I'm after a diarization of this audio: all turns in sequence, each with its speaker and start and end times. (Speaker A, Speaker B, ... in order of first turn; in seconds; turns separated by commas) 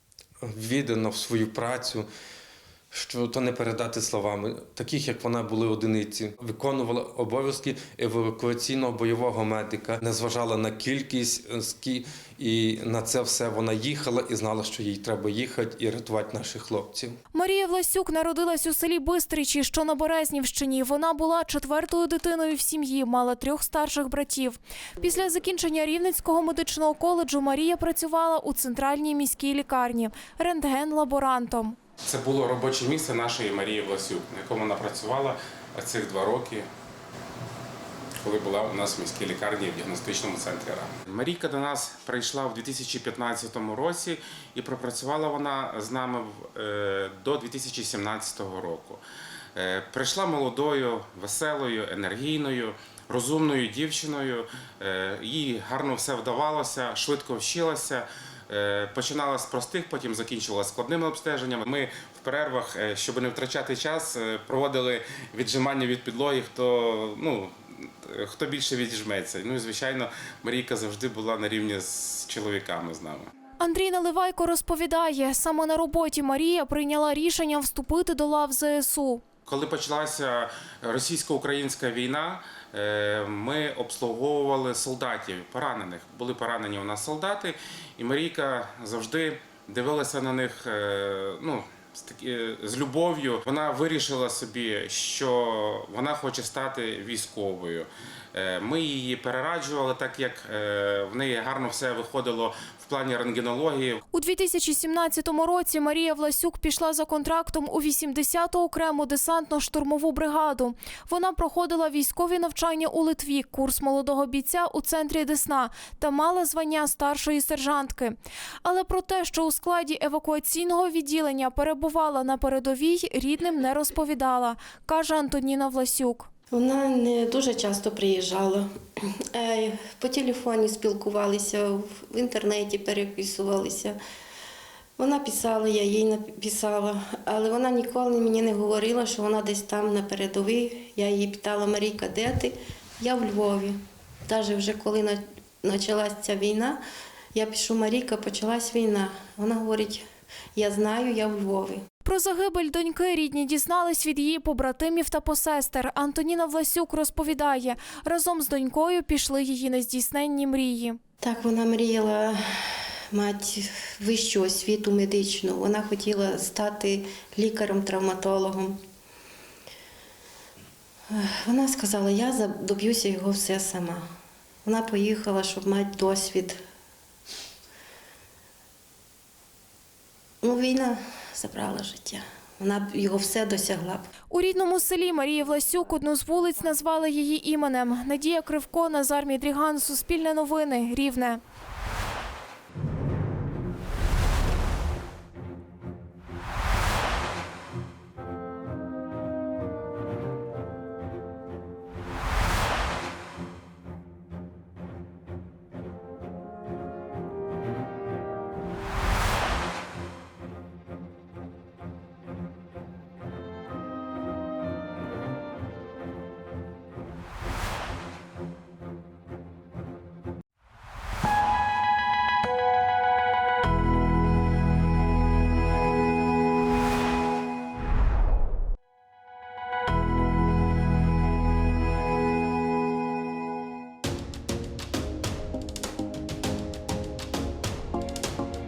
Speaker A: 0.4-2.1, Speaker A: 2.9-17.2, Speaker B: 17.3-31.8, Speaker C: 32.0-36.7, Speaker C: 38.2-49.0, Speaker C: 49.6-73.3, Speaker B: 73.6-79.2, Speaker C: 79.5-104.0, Speaker B: 104.1-126.3, Speaker D: 126.5-128.7, Speaker D: 129.3-134.0, Speaker D: 135.0-146.8, Speaker D: 147.3-151.8, Speaker B: 152.1-161.0, Speaker D: 161.2-162.4, Speaker D: 163.1-168.8, Speaker D: 171.1-174.1, Speaker D: 174.7-176.6, Speaker D: 180.4-184.1, Speaker B: 184.3-191.4